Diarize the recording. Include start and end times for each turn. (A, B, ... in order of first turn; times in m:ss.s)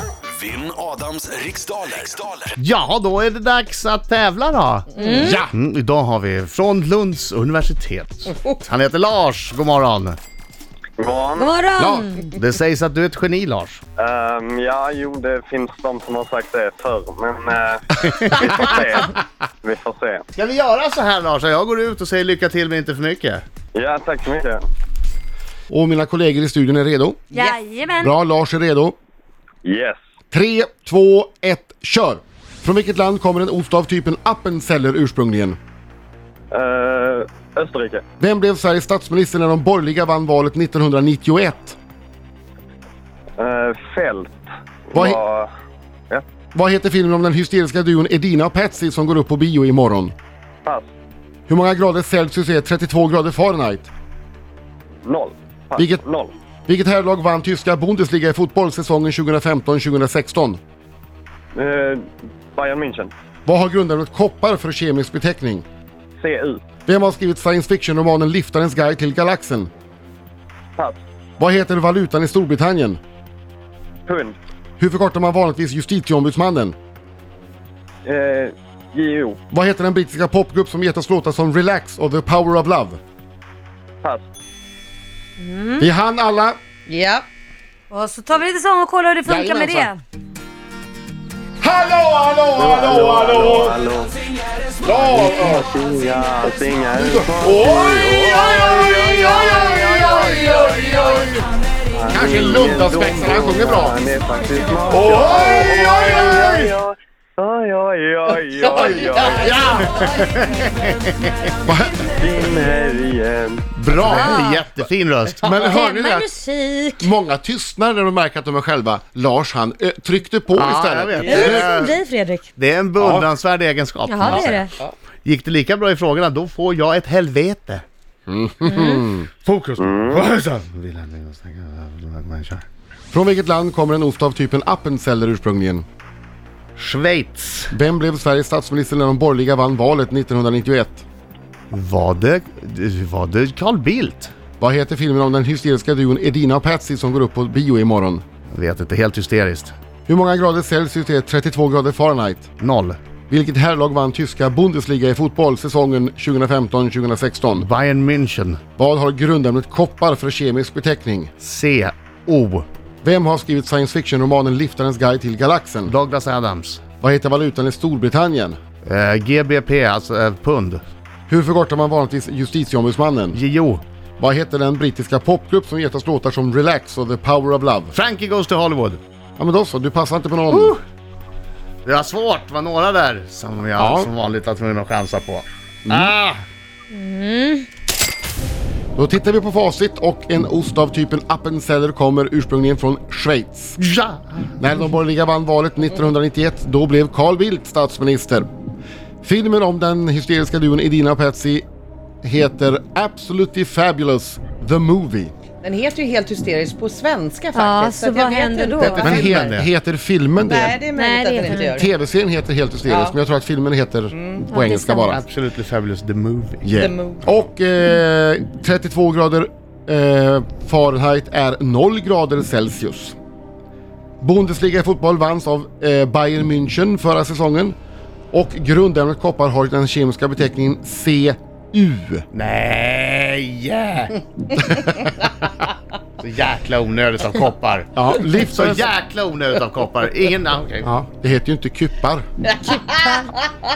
0:00.3-0:02.5 A
0:02.6-0:10.2 B
0:05.0-0:05.4 C
0:05.1-0:05.5 D
0:11.0-0:11.5 E
0:11.4-0:12.3 C
0:11.8-0:12.0 D
0:12.3-0:13.8 B
0:14.0-0:20.2 E
0:18.3-0:18.6 B
0:20.3-0:23.4 B
0:23.7-0:24.6 E
0:25.7-0:27.4 D
0:27.3-0:28.1 C
0:28.0-0:29.0 D
0:29.6-0:30.0 E
0:30.3-0:35.6 D
0:36.5-0:38.0 E
0:38.2-0:41.8 D
0:43.4-0:44.4 E
0:44.9-0:45.5 E
0:44.9-0:45.2 D
0:46.5-0:50.1 D
0:51.5-0:53.9 D
0:55.0-0:56.3 E
0:55.8-0:56.0 D
0:56.7-1:00.6 D
1:01.5-1:03.1 E
1:03.4-1:05.6 D
1:06.2-1:06.6 E
1:06.8-1:09.7 D
1:11.4-1:13.0 D
1:14.1-1:14.4 E
1:14.8-1:16.8 D
1:18.0-1:19.4 E
1:19.5-1:23.0 D
1:25.4-1:25.9 C
1:25.8-1:26.6 D
1:26.9-1:27.3 F
1:27.9-1:30.0 C
1:29.2-1:29.9 D
1:31.6-1:33.7 D
1:32.6-1:34.1 E
1:34.8-1:35.7 D
1:35.1-1:40.7 E
1:37.0-1:41.4 D
1:42.0-1:49.6 E
1:42.1-1:44.0 D
1:44.9-1:46.7 D
1:48.6-1:49.9 D
1:49.2-1:51.3 B
1:51.6-1:52.1 D
1:52.2-1:53.6 E
1:53.8-1:54.4 D
1:53.9-1:55.5 B
1:54.0-1:54.5 C
1:55.4-1:56.3 D
1:55.6-1:57.1 C
1:57.0-2:01.7 D
2:00.5-2:02.0 B
2:01.2-2:02.5 C
2:01.4-2:01.6 F
2:02.6-2:04.7 B
2:03.0-2:03.3 D
2:04.1-2:04.7 C
2:05.2-2:07.8 B
2:08.3-2:09.3 D
2:08.6-2:09.0 C
2:09.4-2:12.6 B
2:09.8-2:10.2 E
2:13.1-2:15.8 D
2:16.8-2:17.7 B
2:17.7-2:21.0 D
2:21.7-2:24.3 B
2:24.6-2:28.2 D
2:28.5-2:29.7 B
2:30.0-2:32.5 D
2:32.6-2:33.0 B
2:33.3-2:37.7 D
2:37.6-2:38.6 B
2:38.8-2:41.3 D
2:41.4-2:42.6 B
2:43.0-2:45.9 D
2:45.8-2:46.8 B
2:47.0-2:48.6 D
2:48.8-2:50.8 B
2:51.3-2:53.4 D
2:53.3-2:53.8 B
2:54.2-2:57.9 D
2:57.9-2:59.0 B
2:59.4-3:00.8 D
3:00.5-3:00.8 B
3:01.8-3:06.4 B
3:03.8-3:04.1 D
3:05.9-3:06.1 D
3:06.9-3:07.6 C
3:08.9-3:13.8 D
3:13.8-3:14.5 B
3:14.6-3:18.4 D
3:19.2-3:21.6 D
3:22.2-3:25.3 D
3:25.6-3:29.5 F
3:27.5-3:29.1 C
3:28.9-3:30.8 D
3:29.0-3:29.7 B
3:30.4-3:31.9 F
3:30.9-3:31.9 C
3:31.6-3:35.2 D
3:32.9-3:33.1 F
3:34.5-3:35.2 C
3:35.1-3:36.7 B
3:36.6-3:43.2 D
3:36.7-3:37.2 F
3:44.2-3:47.8 D
3:48.3-3:52.2 D
3:52.3-3:54.2 B
3:54.7-3:55.1 D
3:56.2-4:00.9 B
3:57.9-3:58.9 D
4:00.8-4:02.2 D
4:02.8-4:03.3 C